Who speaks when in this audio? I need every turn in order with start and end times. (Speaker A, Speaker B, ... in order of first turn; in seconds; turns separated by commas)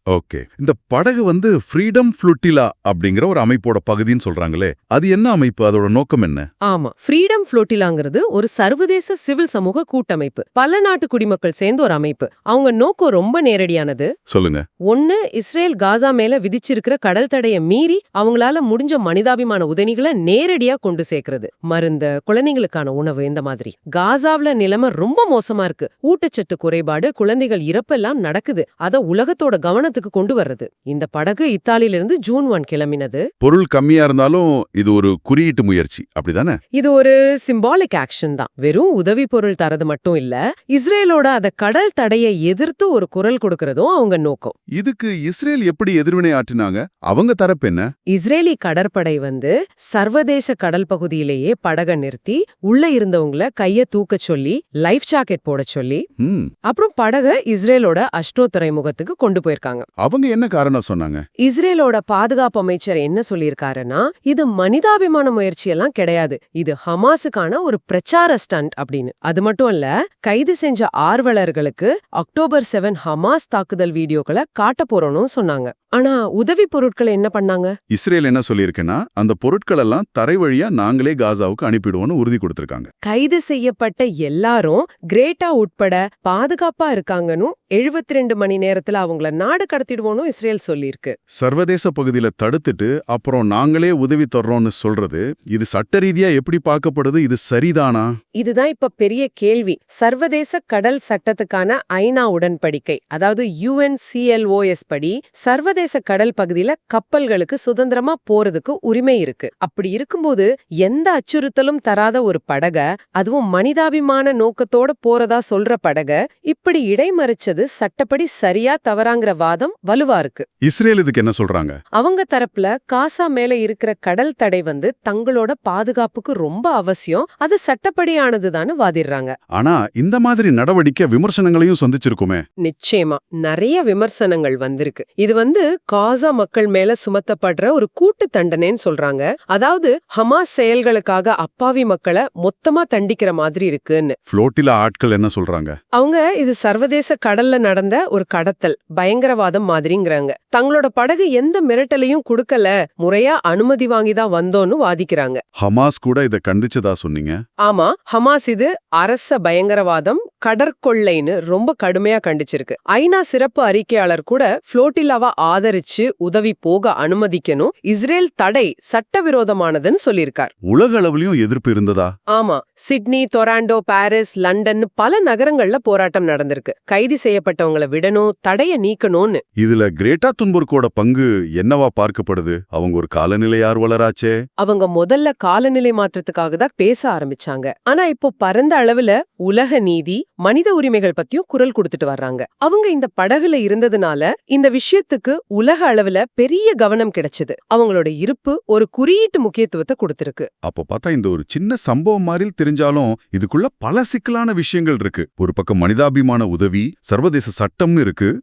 Speaker A: 0.1-6.5, Speaker B: 6.7-14.1, Speaker A: 14.3-14.6, Speaker B: 14.9-33.3, Speaker A: 33.4-36.6, Speaker B: 36.8-44.5, Speaker A: 44.8-47.9, Speaker B: 48.1-56.0, Speaker A: 56.2-56.5, Speaker B: 56.7-59.9, Speaker A: 60.0-61.2, Speaker B: 61.4-77.7, Speaker A: 77.9-82.9, Speaker B: 83.0-91.2, Speaker A: 91.4-98.1, Speaker B: 98.4-120.5, Speaker A: 120.6-121.8, Speaker B: 122.0-129.3, Speaker A: 129.6-132.4, Speaker B: 132.6-144.2, Speaker A: 144.3-145.8, Speaker B: 146.0-155.4, Speaker A: 155.6-157.4, Speaker B: 157.6-170.5, Speaker A: 170.7-172.1, Speaker B: 172.3-179.4, Speaker A: 179.6-184.4, Speaker B: 184.6-200.5, Speaker A: 200.6-208.3